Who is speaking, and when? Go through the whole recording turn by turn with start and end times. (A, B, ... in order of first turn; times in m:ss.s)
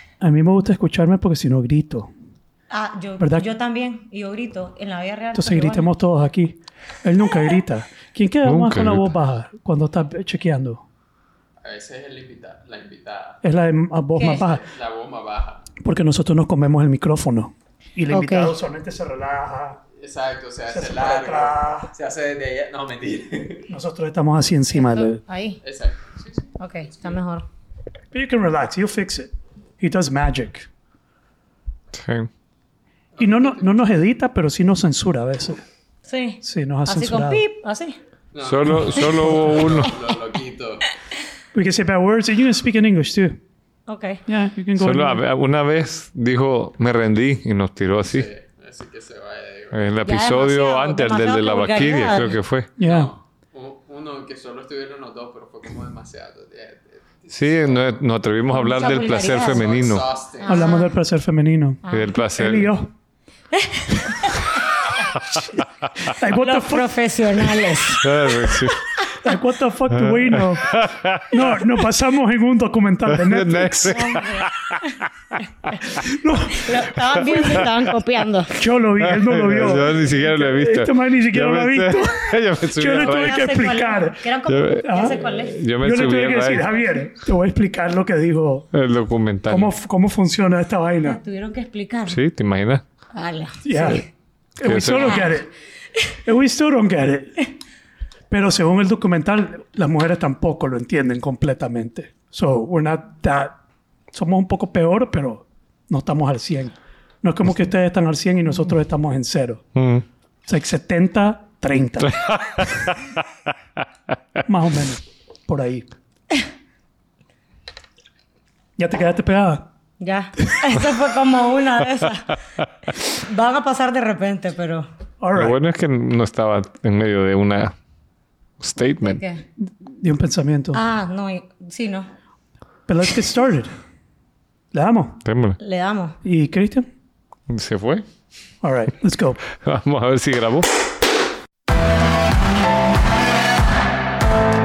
0:00.2-0:02.1 A
0:02.7-0:05.9 B
0:03.2-0:03.4 A
0:05.3-0:10.8 A
0:08.4-0:09.1 C
0:11.6-0:13.4 D
0:13.4-0:14.7 A
0:14.2-0:14.4 B
0:14.2-0:15.7 D
0:15.8-0:19.8 A
0:18.1-0:18.6 B
0:20.0-0:23.7 D
0:20.7-0:21.9 A
0:23.7-0:25.2 A
0:24.8-0:25.6 B
0:25.6-0:27.2 D
0:26.6-0:27.4 B
0:28.1-0:30.7 A
0:31.9-0:32.3 C
0:33.2-0:33.6 D
0:33.2-0:35.6 A
0:36.0-0:38.0 B
0:36.4-0:37.4 A
0:38.3-0:41.0 D
0:38.4-0:39.9 C
0:41.5-0:43.4 A
0:43.9-0:44.2 B
0:44.3-0:45.2 A
0:44.8-0:48.3 C
0:48.0-0:50.0 D
0:49.7-0:52.7 C
0:50.0-0:52.4 B
0:52.8-0:53.1 A
0:52.8-0:58.0 D
0:57.3-1:00.0 C
0:58.5-0:59.7 B
0:58.8-1:00.7 D
1:00.4-1:00.9 B
1:00.5-1:01.8 A
1:01.8-1:02.1 B
1:01.9-1:02.7 C
1:02.3-1:02.9 A
1:03.5-1:04.6 B
1:06.0-1:07.0 A
1:06.3-1:08.7 B
1:08.0-1:08.8 C
1:09.2-1:10.7 A
1:10.0-1:11.4 C
1:11.3-1:14.2 A
1:13.1-1:14.8 C
1:13.9-1:14.9 B
1:15.9-1:17.2 A
1:16.5-1:18.6 B
1:18.5-1:24.3 A
1:19.0-1:23.5 C
1:22.9-1:25.6 B
1:24.5-1:26.7 C
1:24.8-1:25.3 A
1:25.8-1:28.7 A
1:28.7-1:29.7 C
1:29.5-1:31.2 A
1:31.0-1:32.2 B
1:32.1-1:32.8 C
1:33.1-1:34.0 B
1:33.6-1:34.0 A
1:34.6-1:35.5 A
1:34.6-1:35.3 C
1:35.0-1:35.3 B
1:36.2-1:37.4 A
1:38.3-1:43.6 A
1:44.1-1:49.7 A
1:49.8-1:50.0 C
1:50.5-1:52.2 A
1:52.0-1:53.0 C
1:54.4-1:55.8 A
1:58.8-1:59.7 A
2:00.0-2:02.4 B
2:03.0-2:04.9 B
2:05.2-2:05.6 A
2:05.4-2:07.7 C
2:08.6-2:09.2 C
2:09.0-2:09.4 B
2:09.6-2:10.8 A
2:10.7-2:12.1 B
2:12.9-2:13.7 A
2:14.7-2:15.2 A
2:15.2-2:15.6 C
2:15.6-2:16.2 B
2:16.2-2:16.9 A
2:17.5-2:18.0 C
2:18.6-2:19.4 A
2:19.5-2:20.7 C